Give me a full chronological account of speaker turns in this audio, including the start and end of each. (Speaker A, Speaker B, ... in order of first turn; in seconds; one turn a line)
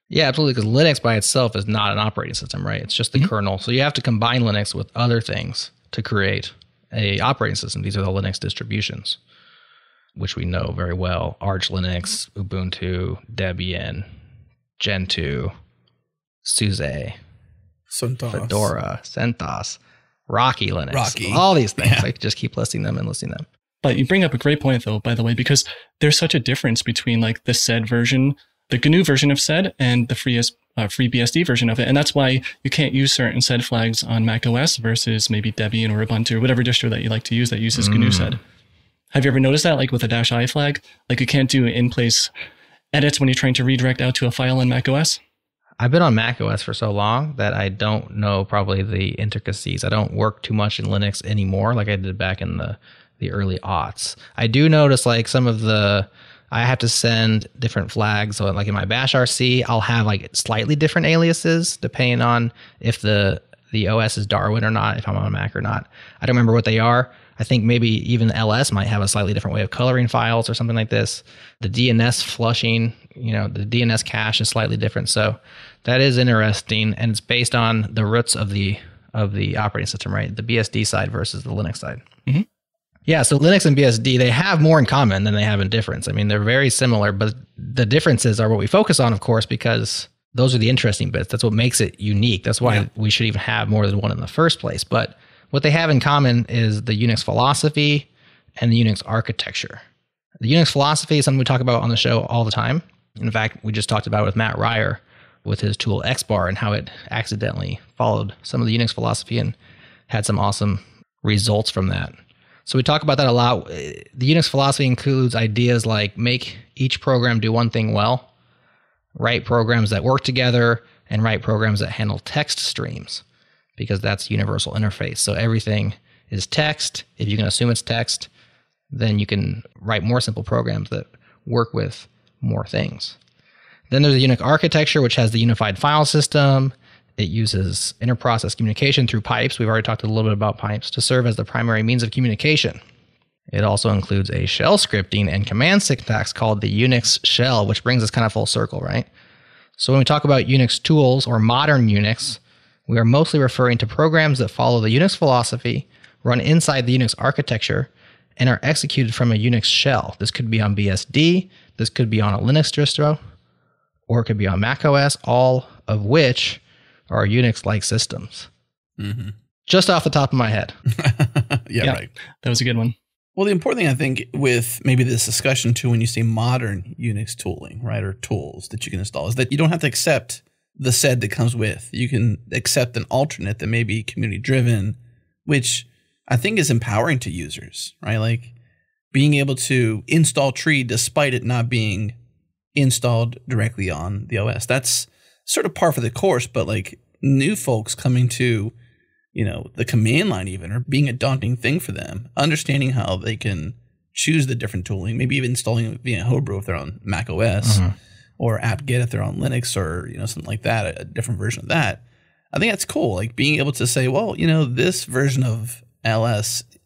Speaker A: 0.1-9.2
Speaker A: 10.2-14.1
Speaker A: 14.8-15.5
Speaker A: 16.4-17.2
Speaker B: 17.9-18.7
Speaker A: 18.3-23.5
Speaker B: 20.9-22.1
Speaker C: 23.8-38.4
Speaker A: 37.8-38.4
Speaker C: 39.1-42.3
Speaker C: 42.9-45.2
Speaker A: 45.8-82.0
Speaker A: 83.1-99.8
Speaker A: 100.4-109.6
Speaker A: 110.1-112.1
Speaker A: 112.7-118.3
Speaker A: 119.2-123.2
Speaker A: 123.8-128.3
Speaker A: 128.9-133.2
Speaker A: 133.9-142.8
Speaker A: 143.5-149.1
Speaker A: 149.8-163.2
Speaker A: 164.1-168.5
Speaker B: 169.0-169.3
Speaker A: 169.7-170.7
Speaker B: 171.0-172.1
Speaker C: 171.8-172.9
Speaker B: 173.4-188.5
Speaker B: 189.1-192.2
Speaker B: 192.8-198.7
Speaker B: 199.3-207.8
Speaker A: 207.6-207.9
Speaker B: 208.4-216.7